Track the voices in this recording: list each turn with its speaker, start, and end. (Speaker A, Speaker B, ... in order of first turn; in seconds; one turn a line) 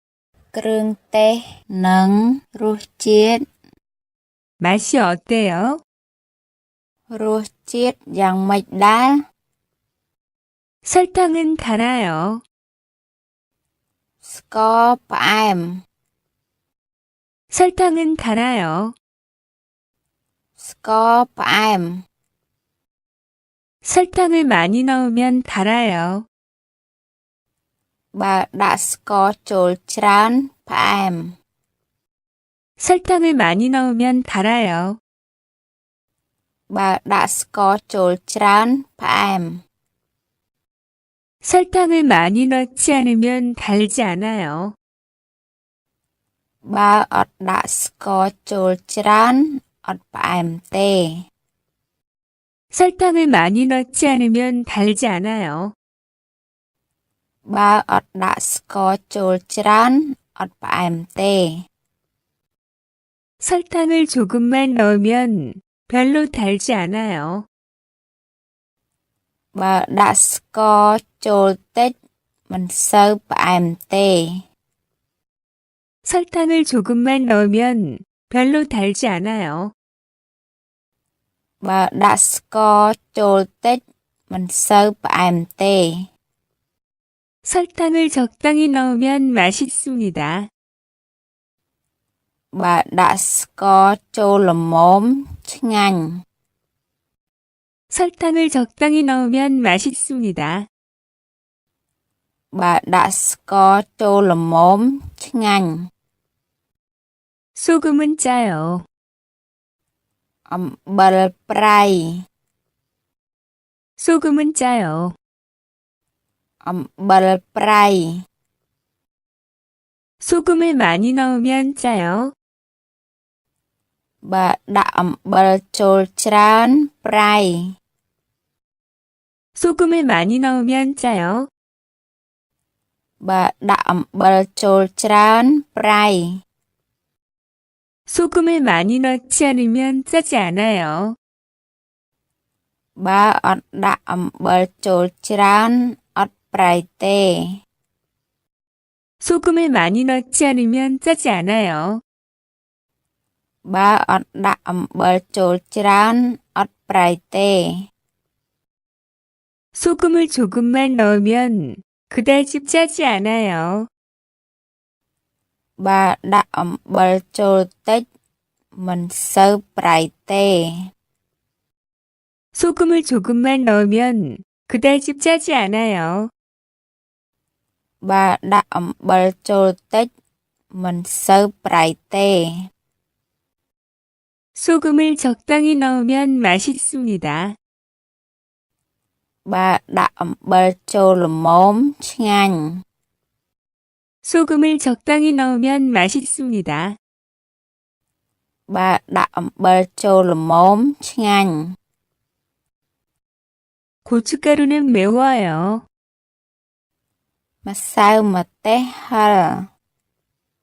Speaker A: 0.5-3.4
Speaker B: 4.6-5.8
Speaker A: 7.1-9.2
Speaker B: 10.8-12.4
Speaker A: 14.2-15.8
Speaker B: 17.5-18.9
Speaker A: 20.6-22.0
Speaker B: 23.8-26.2
Speaker A: 28.1-31.4
Speaker B: 32.8-35.0
Speaker A: 36.7-39.6
Speaker B: 41.4-44.7
Speaker A: 46.7-51.2
Speaker B: 52.7-55.7
Speaker A: 57.5-61.6
Speaker B: 63.4-67.5
Speaker A: 69.5-71.9
Speaker A: 72.5-74.4
Speaker B: 76.0-79.7
Speaker A: 81.6-86.1
Speaker B: 87.4-90.5
Speaker A: 92.5-96.2
Speaker B: 97.9-100.7
Speaker A: 102.5-105.9
Speaker B: 107.5-108.8
Speaker A: 110.5-112.2
Speaker B: 114.0-115.1
Speaker A: 116.6-118.2
Speaker B: 120.2-122.3
Speaker A: 124.2-127.7
Speaker B: 129.6-131.5
Speaker A: 133.2-136.4
Speaker B: 138.1-141.1
Speaker A: 143.0-147.6
Speaker B: 149.2-152.0
Speaker A: 153.7-157.7
Speaker B: 159.7-163.9
Speaker A: 165.8-168.1
Speaker A: 168.7-170.9
Speaker B: 172.5-176.3
Speaker A: 178.0-180.1
Speaker A: 180.7-182.7
Speaker B: 184.6-187.5
Speaker A: 189.4-192.8
Speaker B: 194.2-196.9
Speaker A: 198.7-201.8
Speaker B: 204.0-205.8
Speaker A: 207.6-209.7